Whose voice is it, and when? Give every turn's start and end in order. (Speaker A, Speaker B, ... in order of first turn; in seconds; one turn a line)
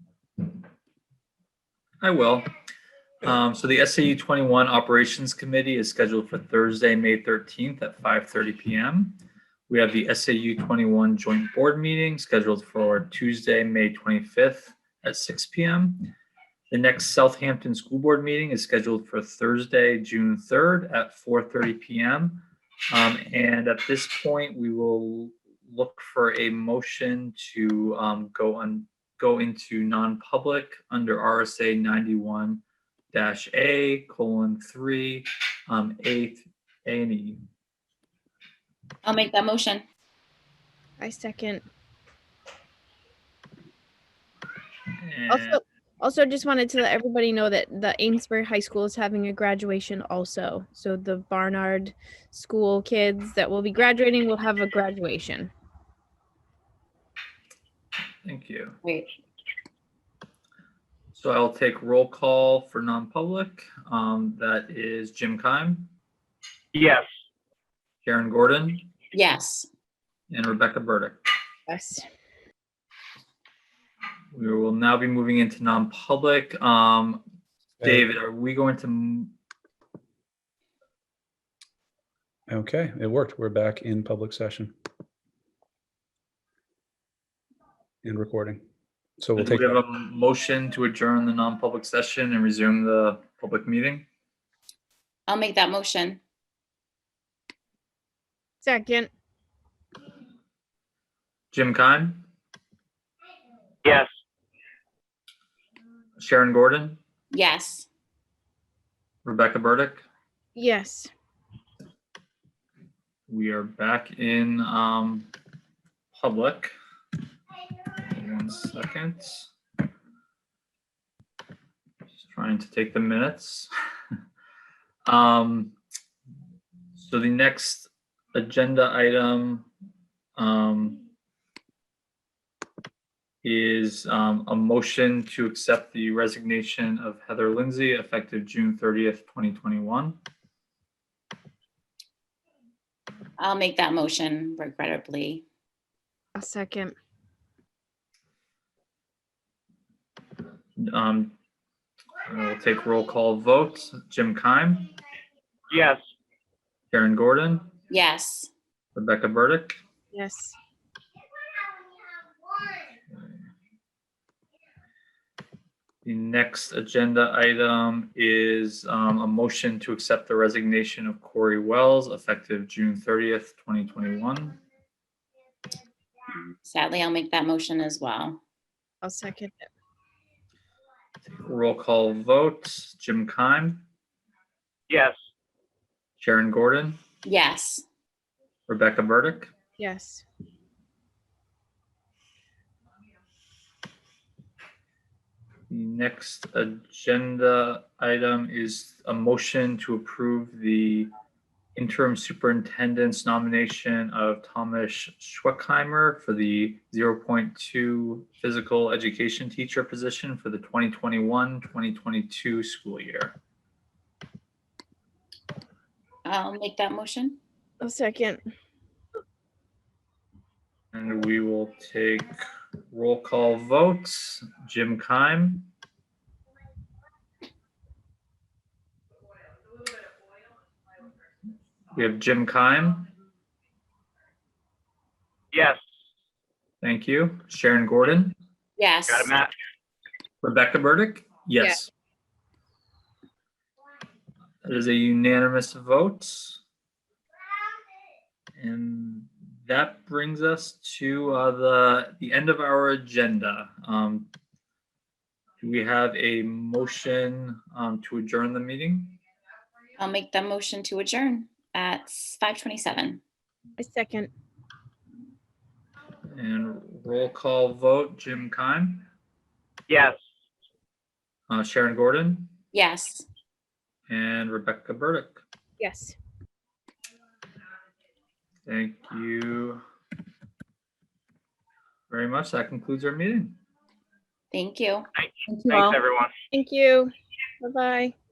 Speaker A: 2.0-2.5
Speaker A: 3.2-9.2
Speaker A: 9.7-16.1
Speaker A: 16.7-37.4
Speaker B: 39.0-39.8
Speaker C: 41.0-41.6
Speaker A: 45.0-45.6
Speaker C: 45.3-55.5
Speaker A: 58.2-58.8
Speaker B: 58.8-59.1
Speaker A: 61.1-65.9
Speaker D: 66.7-67.0
Speaker A: 68.0-68.9
Speaker B: 69.1-69.7
Speaker A: 70.3-71.2
Speaker C: 71.7-72.0
Speaker A: 74.3-77.2
Speaker E: 77.8-78.1
Speaker A: 77.8-79.3
Speaker E: 82.5-84.7
Speaker E: 88.0-88.6
Speaker E: 89.2-89.8
Speaker A: 89.4-94.0
Speaker B: 95.3-96.2
Speaker C: 98.6-99.1
Speaker A: 101.5-102.2
Speaker A: 106.2-107.0
Speaker B: 107.3-107.9
Speaker A: 109.2-110.0
Speaker C: 110.5-111.1
Speaker A: 113.3-115.3
Speaker A: 116.1-116.8
Speaker A: 118.0-119.5
Speaker A: 122.2-123.7
Speaker A: 125.0-125.7
Speaker A: 127.0-129.7
Speaker A: 130.4-131.0
Speaker A: 133.4-140.2
Speaker B: 143.4-145.4
Speaker C: 146.4-146.9
Speaker A: 150.8-151.3
Speaker A: 152.3-154.9
Speaker D: 155.7-156.0
Speaker A: 156.9-157.7
Speaker B: 157.9-158.5
Speaker A: 158.9-159.8
Speaker C: 160.1-160.6
Speaker A: 166.1-174.6
Speaker B: 176.6-178.4
Speaker C: 179.0-179.7
Speaker A: 181.3-183.8
Speaker D: 184.9-185.2
Speaker A: 186.2-187.0
Speaker B: 187.2-187.8
Speaker A: 188.7-189.5
Speaker C: 189.8-190.2
Speaker A: 195.7-201.1
Speaker A: 201.8-213.4
Speaker B: 216.2-217.4
Speaker C: 217.8-218.4
Speaker A: 220.9-222.3
Speaker A: 222.9-225.7
Speaker A: 231.9-233.1
Speaker D: 235.5-235.8
Speaker A: 236.8-238.3
Speaker B: 238.8-239.3
Speaker D: 239.1-239.5
Speaker A: 240.4-241.9
Speaker A: 244.6-246.6
Speaker A: 248.6-254.3
Speaker A: 255.6-259.2
Speaker B: 260.0-263.2
Speaker C: 263.8-264.3
Speaker A: 266.3-269.1
Speaker D: 269.9-270.2
Speaker A: 271.5-272.5
Speaker B: 272.7-273.2
Speaker A: 274.1-275.4
Speaker C: 275.8-276.1
Speaker A: 278.7-279.8
Speaker A: 282.1-283.6
Speaker B: 284.5-286.0
Speaker D: 285.2-286.3
Speaker C: 286.5-288.1